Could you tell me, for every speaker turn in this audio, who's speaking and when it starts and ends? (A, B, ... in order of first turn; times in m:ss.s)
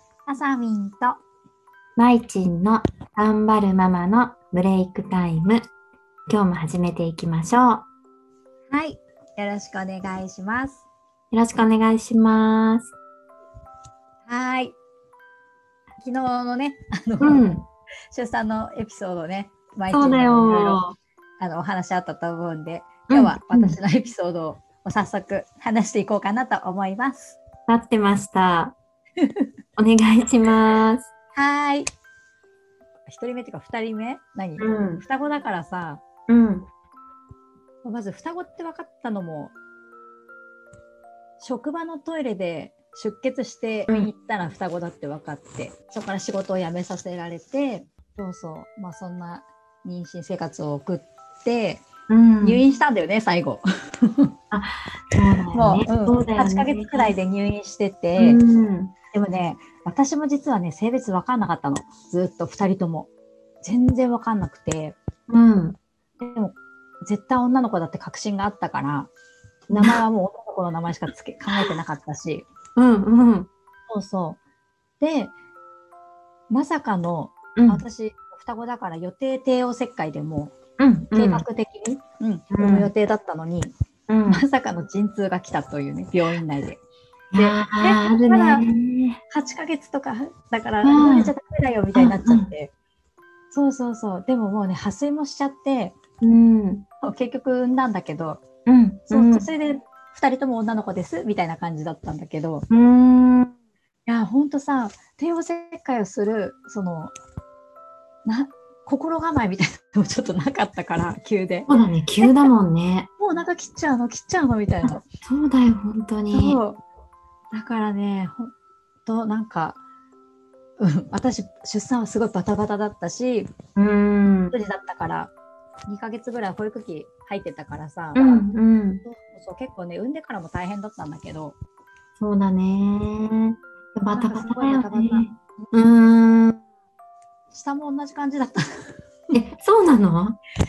0:00.2-0:01.2 A
0:02.0-0:05.6 B
0:06.3-0:07.9 B
0:08.7-0:10.8 A
0:11.3-0:12.9 B
0:14.2-0:14.8 A
0:16.0-0:17.5 A
0:17.2-0:17.6 B
0:18.1-0:20.8 A
0:19.9-0:21.0 B
0:21.4-0:27.4 A
0:23.1-0:23.8 B
0:27.7-0:28.8 B
0:29.8-0:31.1 B
0:31.3-0:31.9 A
0:33.1-0:36.0 A
0:34.6-0:35.0 B
0:36.3-0:36.7 B
0:37.8-0:39.5 A
0:41.4-0:51.8 A
0:52.1-0:52.6 B
0:52.4-0:54.3 A
0:54.5-0:57.1 B
0:55.5-0:58.4 A
0:58.2-0:58.9 B
0:59.1-1:03.1 A
1:03.6-1:05.0 A
1:05.3-1:05.8 B
1:06.2-1:09.1 A
1:09.7-1:10.0 B
1:09.7-1:12.5 A
1:12.8-1:13.5 B
1:13.9-1:14.4 A
1:15.0-1:15.3 A
1:16.5-1:20.5 A
1:17.6-1:17.8 B
1:20.8-1:21.4 B
1:21.1-1:23.7 A
1:22.5-1:22.9 B
1:24.1-1:24.4 B
1:24.3-1:26.8 A
1:27.3-1:29.2 B
1:27.4-1:28.6 A
1:29.3-1:32.7 A
1:30.8-1:31.3 B
1:31.9-1:32.5 B
1:33.5-1:36.0 A
1:36.2-1:36.8 B
1:37.0-1:38.4 A
1:38.6-1:39.5 B
1:39.1-1:42.7 A
1:42.7-1:43.5 B
1:44.1-1:47.1 A
1:48.2-1:51.7 A
1:51.7-1:53.1 B
1:52.2-1:52.5 A
1:53.2-1:55.0 A
1:54.8-1:56.6 B
1:56.3-1:56.8 A
1:57.5-1:58.5 A
1:59.0-1:59.8 A
2:00.8-2:03.5 A
2:03.8-2:04.5 B
2:04.5-2:05.3 A
2:05.9-2:08.5 A
2:08.1-2:09.0 B
2:09.0-2:11.6 A
2:12.2-2:16.6 B
2:14.1-2:16.1 A
2:17.5-2:18.9 A
2:19.3-2:20.4 B